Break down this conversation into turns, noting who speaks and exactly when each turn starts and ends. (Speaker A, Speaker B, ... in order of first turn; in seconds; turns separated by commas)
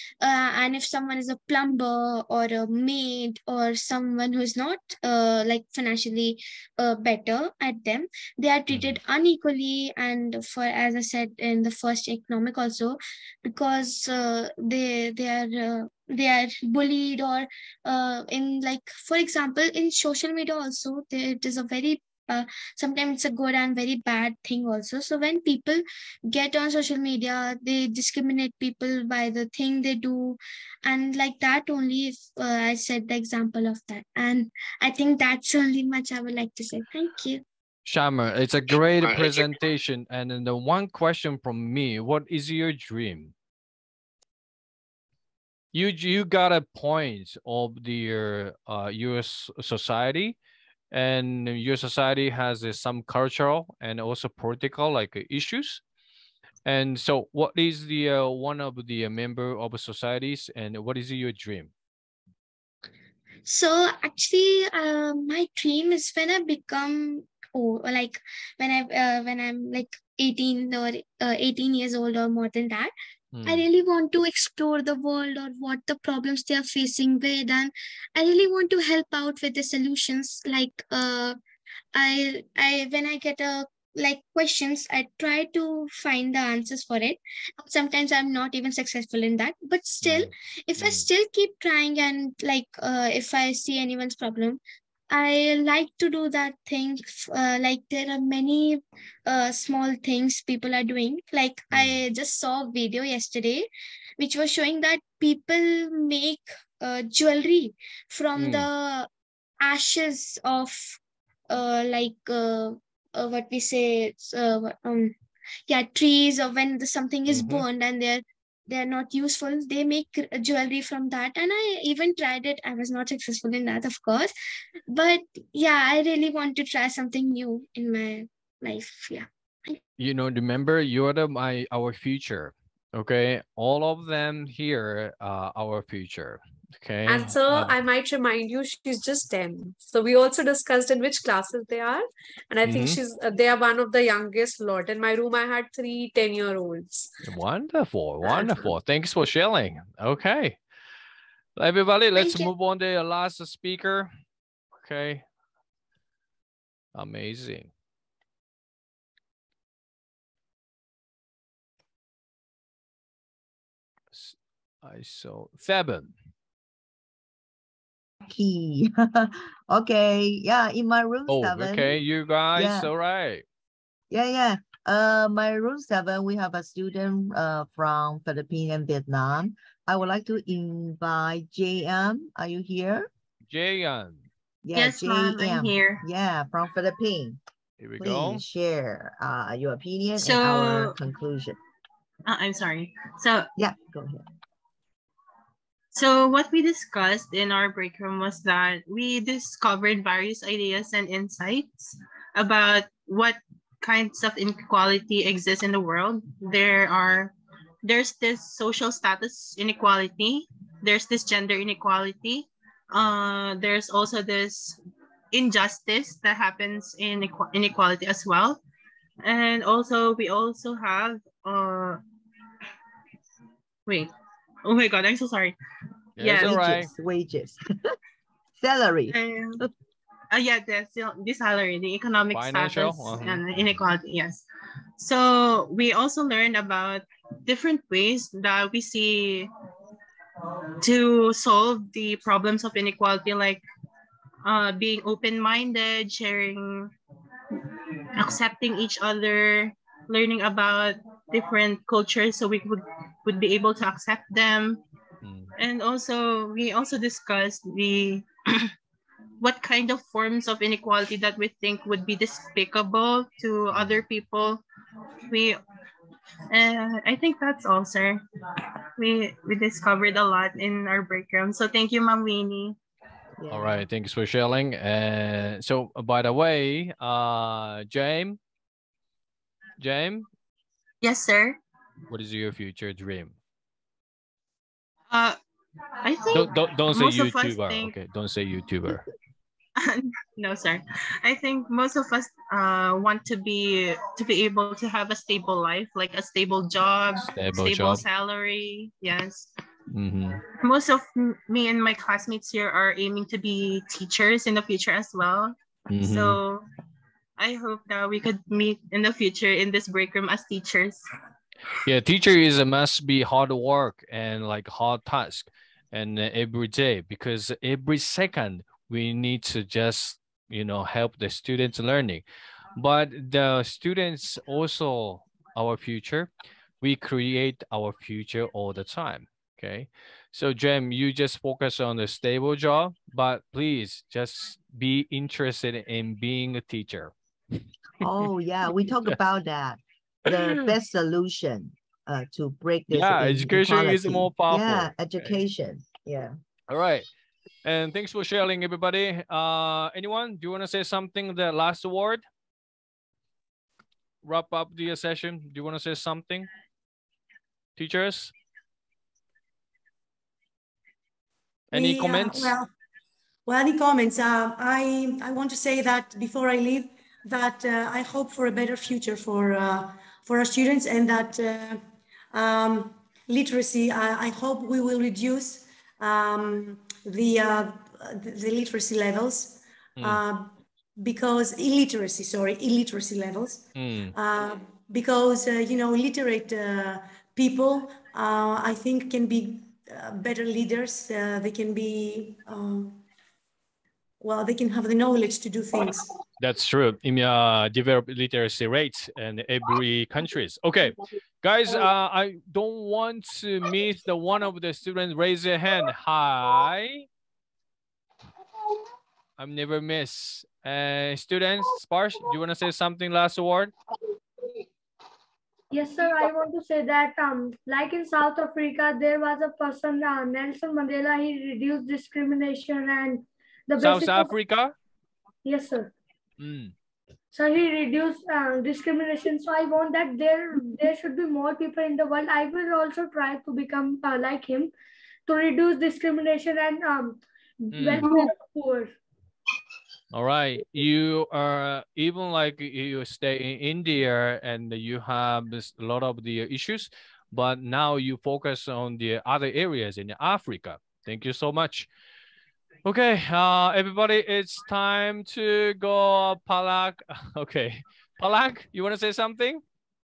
Speaker A: 0.2-37.4, Speaker B: 8.7-9.0, Speaker B: 37.9-43.3, Speaker B: 45.7-50.4, Speaker B: 50.9-55.8, Speaker B: 56.6-61.7, Speaker A: 63.5-72.9, Speaker B: 73.3-73.7, Speaker A: 73.5-81.4, Speaker A: 82.0-109.1, Speaker B: 90.0-91.1, Speaker B: 101.7-102.0, Speaker B: 108.3-108.7, Speaker A: 109.6-111.0, Speaker A: 111.5-115.2, Speaker A: 115.7-124.3, Speaker B: 117.3-117.7, Speaker A: 124.9-129.8, Speaker B: 130.0-137.8, Speaker C: 137.1-147.1, Speaker B: 142.6-143.0, Speaker B: 147.2-150.6, Speaker B: 151.6-154.1, Speaker B: 154.8-155.2, Speaker B: 156.9-157.7, Speaker B: 164.1-166.1, Speaker D: 168.3-172.0, Speaker B: 171.3-173.4, Speaker D: 172.6-172.9, Speaker D: 174.1-183.1, Speaker B: 183.5-184.2, Speaker D: 184.6-187.4, Speaker E: 184.8-186.0, Speaker B: 187.8-188.4, Speaker D: 188.0-191.6, Speaker E: 190.2-191.0, Speaker E: 192.3-193.5, Speaker D: 193.6-194.2, Speaker E: 195.9-207.3, Speaker E: 207.8-214.8, Speaker E: 215.3-218.6, Speaker E: 219.2-222.0, Speaker E: 223.9-224.1, Speaker E: 224.7-225.6, Speaker B: 226.2-226.9, Speaker E: 226.2-226.6, Speaker D: 226.3-227.6, Speaker D: 228.6-229.7, Speaker E: 229.1-229.6, Speaker E: 230.3-234.4, Speaker B: 232.3-233.4, Speaker E: 235.0-239.5, Speaker E: 240.8-243.6, Speaker E: 244.4-246.9, Speaker E: 248.2-254.8, Speaker B: 255.2-255.6, Speaker E: 255.6-258.7, Speaker E: 259.4-264.6, Speaker B: 263.7-264.0, Speaker E: 265.3-265.6, Speaker E: 266.5-268.2, Speaker E: 269.0-272.8, Speaker D: 273.4-273.8, Speaker B: 273.5-278.4, Speaker B: 279.8-280.3, Speaker E: 281.0-281.6, Speaker B: 282.1-283.4, Speaker E: 285.1-285.4, Speaker E: 286.0-288.0, Speaker B: 286.3-289.0, Speaker E: 289.8-299.5, Speaker B: 297.3-298.0, Speaker B: 299.9-300.4, Speaker E: 300.6-306.7, Speaker B: 305.9-306.4, Speaker E: 307.4-311.1, Speaker B: 311.9-322.2, Speaker B: 322.8-337.1, Speaker B: 338.0-339.2, Speaker D: 338.0-346.4, Speaker B: 340.3-340.8, Speaker B: 342.9-345.4, Speaker B: 346.7-347.1, Speaker B: 347.6-352.2, Speaker B: 354.2-356.5, Speaker B: 357.8-358.3, Speaker B: 361.7-362.6, Speaker F: 361.7-362.7, Speaker F: 363.5-371.8, Speaker F: 372.3-393.0, Speaker B: 380.0-380.2, Speaker B: 383.8-384.1, Speaker F: 394.2-396.1, Speaker B: 396.4-407.1, Speaker B: 409.4-413.7, Speaker G: 415.7-424.3, Speaker B: 423.8-424.7, Speaker G: 425.4-425.9, Speaker B: 426.4-426.7, Speaker G: 427.3-434.7, Speaker G: 435.3-439.0, Speaker B: 437.7-438.1, Speaker B: 440.1-451.9, Speaker B: 452.9-459.6